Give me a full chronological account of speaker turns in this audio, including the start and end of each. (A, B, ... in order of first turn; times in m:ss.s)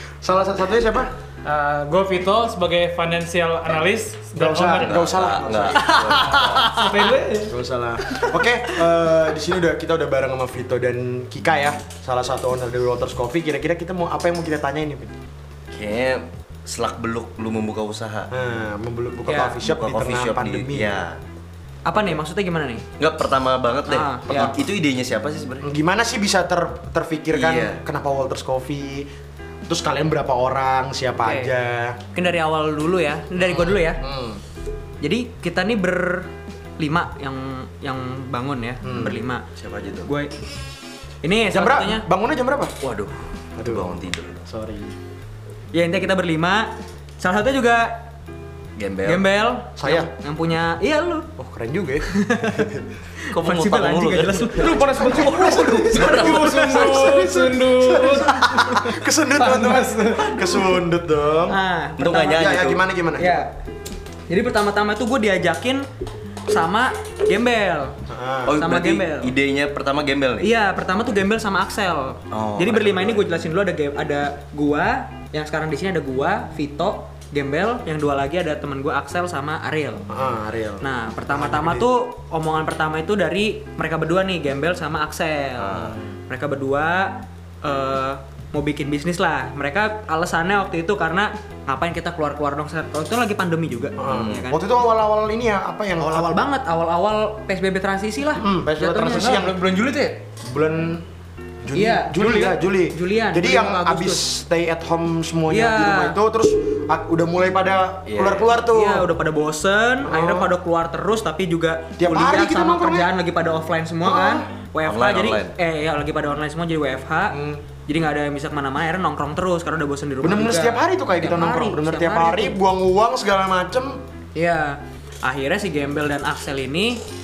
0:00.2-0:01.1 A
0:01.4-0:05.1 B
0:04.3-0:06.7 A
0:04.8-0:06.7 C
0:06.2-0:07.5 B
0:07.4-0:15.1 A
0:15.7-0:18.3 C
0:18.3-0:20.9 A
0:19.4-0:21.2 C
0:21.8-0:22.8 D
0:23.0-0:25.6 C
0:23.9-0:24.5 D
0:24.3-0:24.6 A
0:25.6-0:29.1 A
0:27.3-0:27.8 C
0:29.7-0:32.0 A
0:31.2-0:31.5 D
0:32.1-0:34.0 D
0:33.4-0:34.4 A
0:35.0-0:39.4 D
0:38.8-0:39.2 A
0:39.6-0:40.1 C
0:40.0-0:40.3 D
0:41.2-0:42.0 D
0:41.5-0:42.7 A
0:42.8-0:44.4 C
0:43.6-0:44.9 A
0:45.7-0:48.0 D
0:48.8-0:49.2 C
0:49.0-0:51.3 D
0:49.8-0:50.1 A
0:51.4-0:52.8 A
0:52.1-0:52.7 D
0:53.2-0:55.2 D
0:53.3-0:57.3 C
0:54.6-1:00.7 B
0:54.8-1:01.6 A
1:01.4-1:02.5 D
1:02.0-1:02.8 C
1:02.3-1:03.4 A
1:03.2-1:03.5 D
1:04.3-1:05.8 D
1:06.5-1:08.0 D
1:08.1-1:08.5 A
1:08.4-1:10.5 C
1:08.5-1:09.3 D
1:10.4-1:20.0 D
1:12.3-1:13.3 C
1:20.1-1:21.8 A
1:20.8-1:34.6 D
1:25.6-1:26.0 C
1:34.0-1:36.4 A
1:34.1-1:34.4 C
1:36.0-1:39.5 D
1:38.4-1:39.6 A
1:39.1-1:40.2 B
1:40.4-1:41.0 A
1:41.6-1:49.1 A
1:41.7-1:44.2 D
1:45.5-1:46.2 D
1:48.0-1:48.5 C
1:48.7-2:02.6 D
1:50.0-1:50.5 A
1:52.0-1:53.1 A
1:54.0-1:54.5 A
1:54.8-1:55.5 C
1:57.3-1:57.6 A
2:00.2-2:04.0 A
2:04.3-2:07.0 D